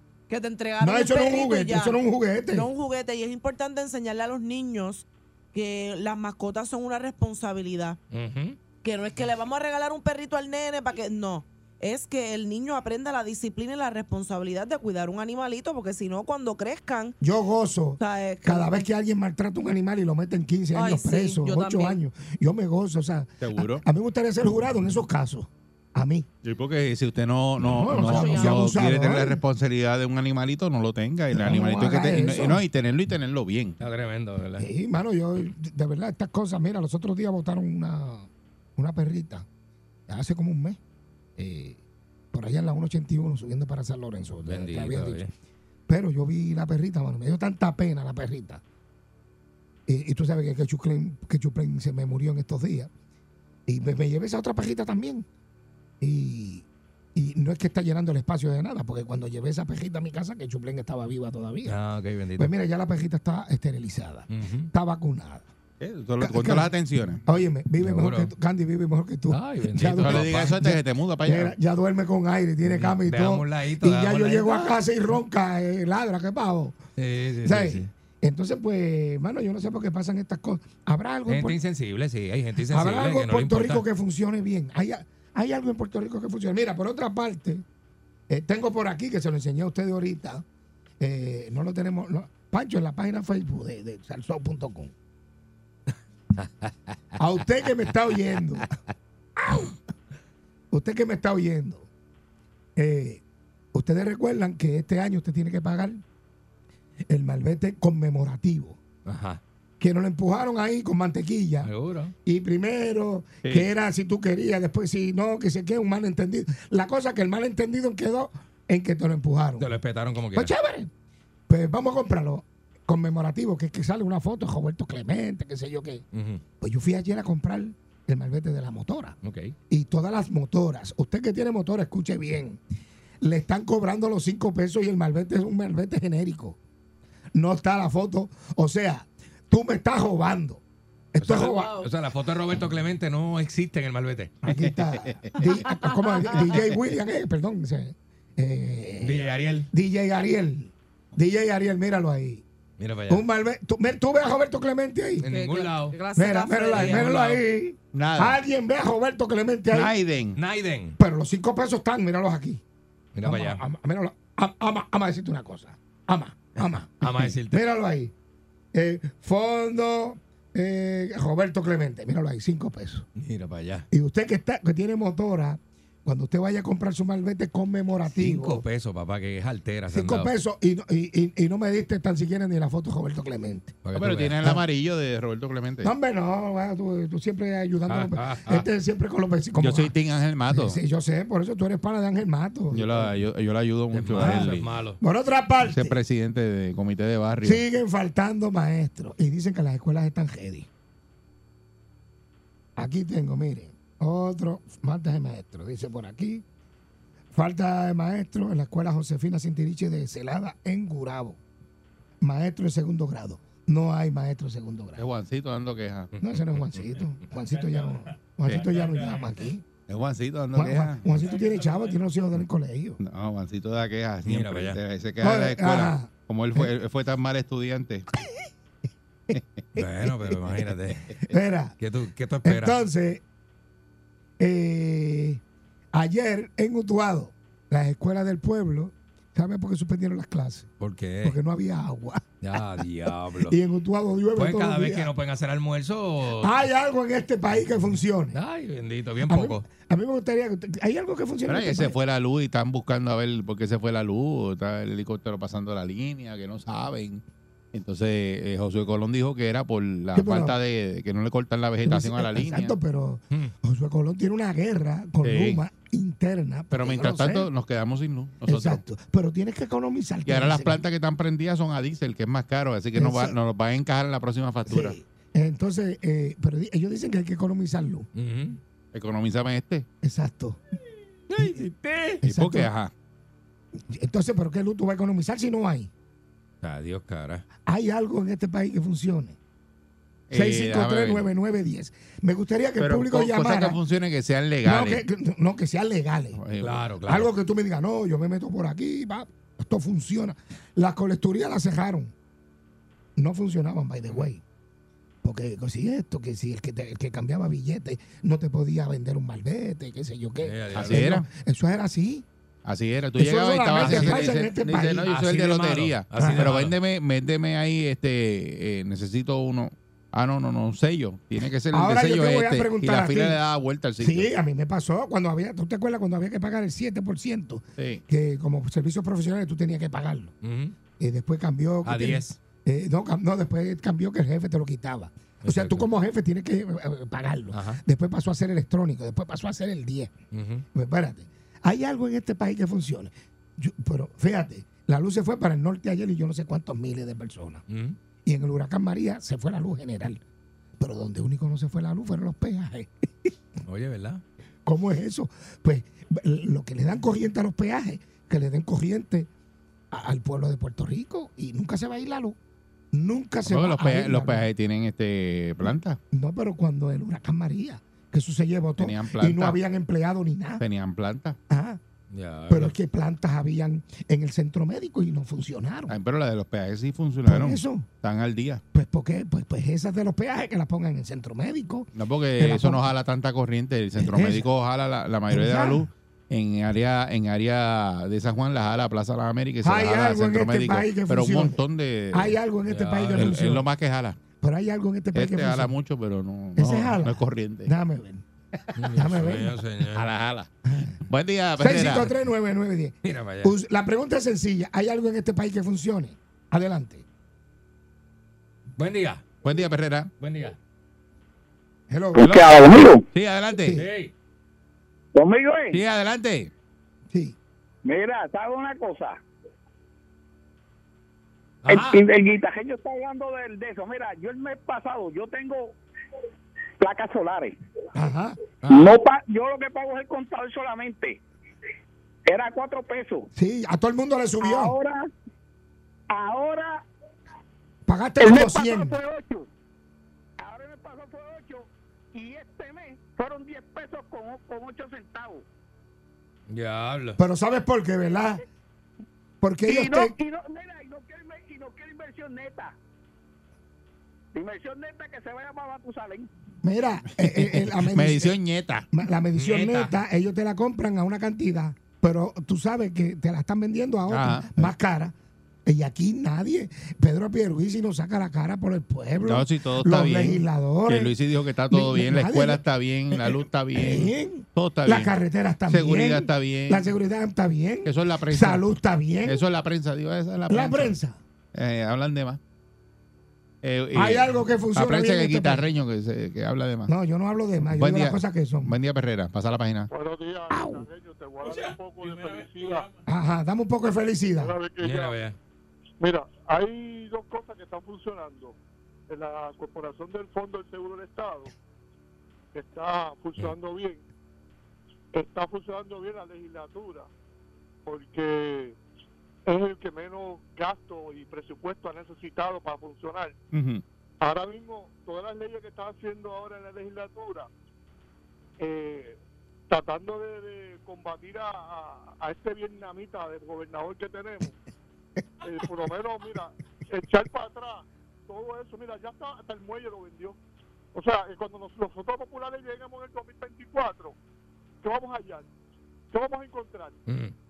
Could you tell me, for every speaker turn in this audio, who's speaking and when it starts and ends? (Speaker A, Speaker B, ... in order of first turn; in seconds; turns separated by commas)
Speaker A: 0.3-2.0, Speaker B: 0.8-2.7, Speaker A: 2.5-8.0, Speaker C: 8.1-8.6, Speaker A: 8.8-17.2, Speaker B: 17.2-26.3, Speaker A: 18.0-18.8, Speaker A: 20.7-22.0, Speaker D: 23.4-23.8, Speaker D: 26.4-33.8, Speaker B: 27.6-29.4, Speaker A: 28.0-28.7, Speaker B: 31.3-32.6, Speaker C: 33.8-34.7, Speaker B: 34.6-39.5, Speaker B: 40.1-40.8, Speaker B: 41.4-41.8, Speaker B: 42.3-45.2, Speaker C: 44.4-45.3, Speaker B: 45.9-48.6, Speaker B: 49.9-52.9, Speaker B: 53.7-55.2, Speaker B: 56.0-61.8, Speaker C: 61.6-62.5, Speaker B: 62.4-65.5, Speaker C: 64.3-64.7, Speaker D: 65.8-67.2, Speaker B: 66.2-66.7, Speaker B: 67.2-76.8, Speaker C: 67.8-68.3, Speaker C: 69.3-70.6, Speaker D: 69.9-71.5, Speaker C: 72.7-74.8, Speaker C: 77.0-77.9, Speaker B: 77.4-81.6, Speaker C: 81.3-83.8, Speaker B: 82.7-87.6, Speaker B: 88.3-90.4, Speaker B: 91.0-94.9, Speaker B: 97.2-98.7, Speaker B: 99.4-99.7, Speaker B: 100.7-101.9, Speaker B: 102.8-103.2, Speaker B: 103.7-106.0, Speaker B: 107.1-108.8, Speaker C: 109.0-109.4, Speaker B: 109.8-111.7, Speaker C: 111.6-112.1, Speaker B: 112.2-119.7, Speaker C: 119.6-120.5, Speaker B: 120.3-120.9, Speaker B: 121.5-126.0, Speaker C: 126.1-126.4, Speaker B: 126.6-129.2, Speaker C: 129.2-129.5, Speaker B: 129.7-132.6, Speaker B: 133.2-136.6, Speaker B: 137.3-140.6, Speaker B: 141.1-141.8, Speaker C: 141.2-144.3, Speaker A: 141.5-141.9, Speaker B: 144.4-152.4, Speaker D: 144.5-145.4, Speaker A: 145.4-146.4, Speaker C: 149.0-149.7, Speaker C: 152.8-153.2, Speaker B: 153.1-155.2, Speaker C: 155.2-156.0, Speaker A: 155.3-157.1, Speaker B: 156.2-159.9, Speaker C: 156.7-157.4, Speaker D: 157.9-158.4, Speaker D: 159.7-160.4, Speaker C: 160.4-161.0, Speaker B: 161.0-162.6, Speaker C: 163.1-163.6, Speaker B: 163.2-168.1, Speaker C: 166.6-167.6, Speaker B: 168.7-173.0, Speaker C: 173.2-173.9, Speaker B: 173.9-178.6, Speaker C: 178.1-180.3, Speaker B: 179.9-183.8, Speaker C: 183.8-184.4, Speaker D: 183.9-185.9, Speaker B: 185.8-189.9, Speaker C: 187.9-188.7, Speaker D: 189.6-190.8, Speaker B: 190.5-193.1, Speaker D: 192.7-194.7, Speaker C: 193.9-195.0, Speaker B: 194.1-196.0, Speaker D: 195.6-197.6, Speaker B: 197.4-200.7, Speaker B: 202.8-206.4, Speaker B: 207.3-211.4, Speaker B: 212.2-215.0, Speaker D: 215.0-216.1, Speaker B: 216.2-219.7, Speaker D: 219.9-221.1, Speaker B: 220.5-223.0, Speaker D: 223.0-228.1, Speaker C: 224.2-224.8, Speaker B: 225.2-226.7, Speaker B: 229.8-230.4, Speaker C: 229.8-231.0, Speaker B: 231.2-231.8, Speaker C: 231.8-232.8, Speaker B: 232.4-233.2, Speaker B: 234.4-235.4, Speaker B: 235.9-240.7, Speaker C: 240.8-241.4, Speaker B: 241.2-242.6, Speaker C: 242.4-243.6, Speaker B: 243.3-245.1, Speaker C: 244.3-246.5, Speaker B: 246.4-248.4, Speaker C: 248.3-249.6, Speaker B: 249.3-251.9, Speaker D: 251.5-257.2, Speaker D: 257.7-262.7, Speaker B: 260.1-260.6, Speaker B: 261.8-267.5, Speaker D: 265.2-265.6, Speaker D: 266.7-268.8, Speaker B: 268.4-270.8, Speaker D: 270.2-275.0, Speaker B: 272.9-273.4, Speaker B: 274.7-278.1, Speaker C: 278.1-278.6, Speaker D: 278.9-279.9, Speaker B: 280.0-280.6, Speaker C: 281.3-282.2, Speaker B: 282.2-282.7, Speaker D: 282.2-282.9, Speaker B: 283.8-285.9, Speaker C: 286.6-287.4, Speaker B: 287.6-289.4, Speaker D: 290.3-291.2, Speaker B: 290.3-293.8, Speaker D: 292.8-295.0, Speaker B: 294.6-296.4, Speaker D: 296.4-296.9, Speaker C: 296.6-297.3, Speaker B: 297.1-302.1, Speaker B: 303.1-304.4, Speaker B: 305.2-312.2, Speaker C: 310.4-311.1, Speaker D: 310.7-311.2, Speaker D: 312.6-324.3, Speaker B: 313.1-315.1, Speaker C: 313.8-314.4, Speaker C: 315.1-316.7, Speaker B: 316.1-316.6, Speaker B: 321.7-323.4, Speaker B: 324.0-330.3, Speaker D: 327.8-328.0, Speaker C: 330.4-330.7, Speaker B: 331.0-340.1, Speaker C: 331.8-332.4, Speaker C: 335.4-335.9, Speaker C: 337.5-337.8, Speaker C: 340.3-340.6, Speaker B: 340.7-347.6, Speaker C: 347.7-348.0, Speaker B: 348.2-350.2, Speaker B: 350.8-353.3, Speaker C: 353.6-354.2, Speaker B: 354.6-359.3, Speaker B: 359.9-362.4, Speaker B: 362.9-364.5, Speaker D: 363.4-366.0, Speaker B: 365.6-370.6, Speaker D: 368.8-369.6, Speaker D: 370.6-371.4, Speaker B: 371.5-371.8, Speaker C: 372.1-372.7, Speaker B: 372.5-375.9, Speaker D: 375.9-378.6, Speaker B: 377.2-377.9, Speaker B: 378.7-382.8, Speaker D: 381.9-392.3, Speaker B: 384.0-384.5, Speaker B: 385.3-385.9, Speaker B: 389.6-391.6, Speaker B: 392.1-393.6, Speaker C: 392.6-393.4, Speaker D: 393.1-394.2, Speaker B: 394.4-395.7, Speaker D: 395.1-397.7, Speaker B: 396.6-398.2, Speaker C: 398.8-400.1, Speaker B: 398.9-399.5, Speaker D: 399.9-400.5, Speaker B: 400.7-400.9, Speaker D: 401.1-402.1, Speaker B: 401.6-407.0, Speaker C: 403.0-403.5, Speaker C: 408.8-409.3, Speaker D: 409.4-410.1, Speaker C: 410.2-410.6, Speaker B: 411.9-412.3, Speaker E: 412.1-413.1, Speaker D: 412.2-413.8, Speaker B: 413.6-413.9, Speaker C: 413.7-414.1, Speaker E: 415.1-415.8, Speaker D: 415.7-416.5, Speaker B: 417.1-417.4, Speaker E: 417.8-419.2, Speaker C: 421.6-422.0, Speaker E: 421.7-425.8, Speaker E: 426.8-427.6, Speaker B: 427.9-428.4, Speaker C: 428.6-429.0, Speaker E: 428.7-431.2, Speaker E: 432.2-433.3, Speaker B: 433.3-434.7, Speaker E: 434.4-435.1, Speaker E: 436.1-436.8, Speaker B: 437.9-438.9, Speaker E: 438.2-439.5, Speaker E: 440.4-445.4, Speaker C: 446.5-447.2, Speaker B: 447.2-448.4, Speaker B: 449.4-450.1, Speaker E: 449.6-452.8, Speaker E: 454.3-456.3, Speaker B: 456.6-458.4, Speaker D: 457.2-458.9, Speaker B: 458.9-465.1, Speaker C: 459.3-459.9, Speaker D: 464.1-464.7, Speaker B: 465.6-471.1, Speaker D: 469.2-475.1, Speaker B: 471.7-479.4, Speaker D: 475.7-476.9, Speaker D: 477.8-478.6, Speaker D: 479.2-480.9, Speaker B: 480.5-481.2, Speaker D: 481.5-482.4, Speaker D: 483.6-486.9, Speaker B: 483.9-485.6, Speaker B: 486.9-488.7, Speaker D: 487.8-489.9, Speaker F: 489.9-492.9, Speaker B: 490.5-490.9, Speaker B: 493.1-494.6, Speaker F: 494.4-495.2, Speaker C: 494.8-495.4, Speaker F: 496.0-498.6, Speaker F: 499.1-501.5, Speaker F: 502.5-504.0, Speaker F: 505.1-507.1, Speaker F: 507.9-508.8, Speaker F: 509.4-513.3, Speaker D: 513.5-513.8, Speaker F: 514.2-517.5, Speaker F: 518.6-519.2, Speaker F: 519.7-524.5, Speaker F: 525.4-530.4, Speaker F: 530.9-534.1, Speaker F: 534.8-535.5, Speaker F: 536.1-537.0, Speaker C: 537.1-537.3